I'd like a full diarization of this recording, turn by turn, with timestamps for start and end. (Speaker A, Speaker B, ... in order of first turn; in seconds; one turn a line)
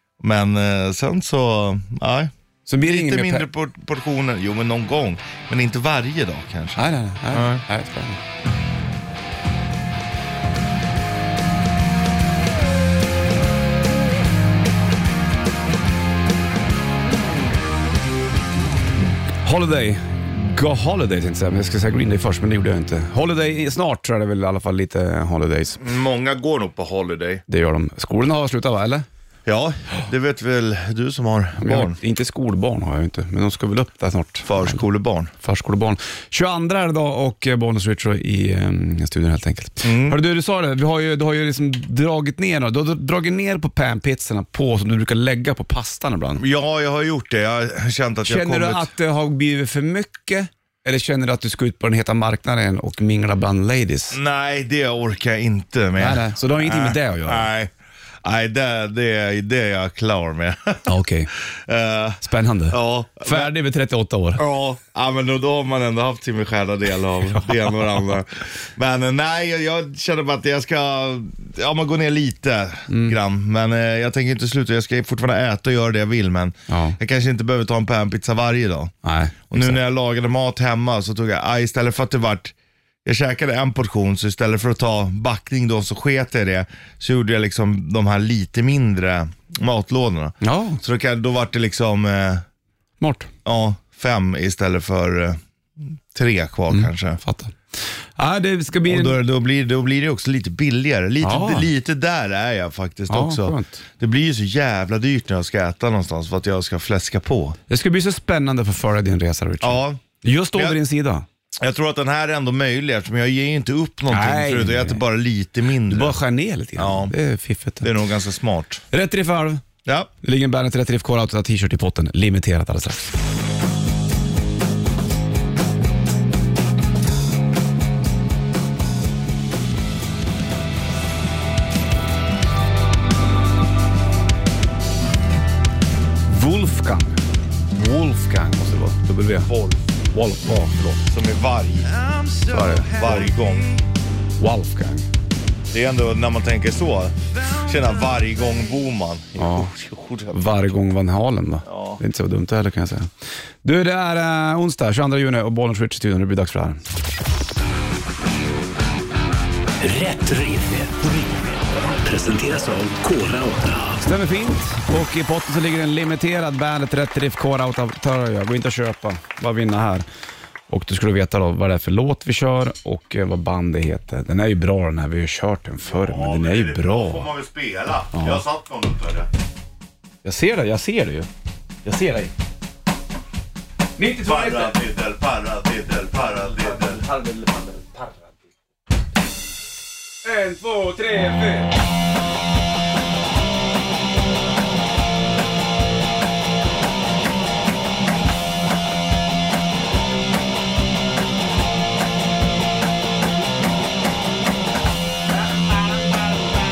Speaker A: 0.2-7.6
Speaker B: 2.7-3.5
Speaker B: 6.8-8.2
Speaker B: 19.4-25.8
Speaker A: 25.8-27.4
Speaker B: 27.5-29.1
Speaker A: 29.4-32.0
Speaker B: 31.6-34.8
Speaker A: 34.4-35.3
Speaker B: 35.4-46.4
Speaker A: 39.8-40.2
Speaker A: 46.4-48.9
Speaker B: 48.2-54.2
Speaker A: 54.1-57.7
Speaker B: 56.0-57.5
Speaker A: 58.2-60.9
Speaker B: 60.9-61.3
Speaker A: 61.5-63.5
Speaker B: 62.2-64.4
Speaker A: 64.4-78.9
Speaker B: 72.9-73.2
Speaker B: 76.7-77.0
Speaker B: 79.0-79.8
Speaker A: 79.5-82.5
Speaker A: 83.0-92.4
Speaker B: 90.4-90.8
Speaker B: 93.0-93.3
Speaker A: 93.4-95.4
Speaker A: 96.1-97.2
Speaker B: 96.7-99.2
Speaker A: 98.8-107.6
Speaker B: 101.2-101.7
Speaker B: 103.1-103.8
Speaker B: 107.7-111.2
Speaker A: 109.6-110.8
Speaker A: 111.6-116.2
Speaker B: 114.1-115.0
Speaker B: 115.9-117.9
Speaker A: 116.8-117.1
Speaker A: 117.8-118.8
Speaker B: 118.9-119.6
Speaker A: 119.8-120.1
Speaker B: 120.2-123.1
Speaker B: 136.3-137.2
Speaker B: 137.7-139.5
Speaker A: 139.4-139.8
Speaker B: 140.1-141.0
Speaker A: 141.1-141.9
Speaker B: 142.5-143.3
Speaker A: 142.7-143.8
Speaker B: 144.4-145.1
Speaker A: 145.7-150.6
Speaker B: 149.4-149.7
Speaker B: 150.3-153.1
Speaker A: 151.7-152.0
Speaker B: 153.6-156.8
Speaker C: 159.8-164.0
Speaker B: 164.0-170.1
Speaker B: 170.7-177.3
Speaker A: 175.8-179.3
Speaker B: 178.1-178.4
Speaker B: 180.2-181.3
Speaker B: 181.8-182.3
Speaker B: 184.0-184.8
Speaker A: 184.2-187.0
Speaker B: 186.6-188.3
Speaker B: 190.2-191.7
Speaker B: 205.9-206.2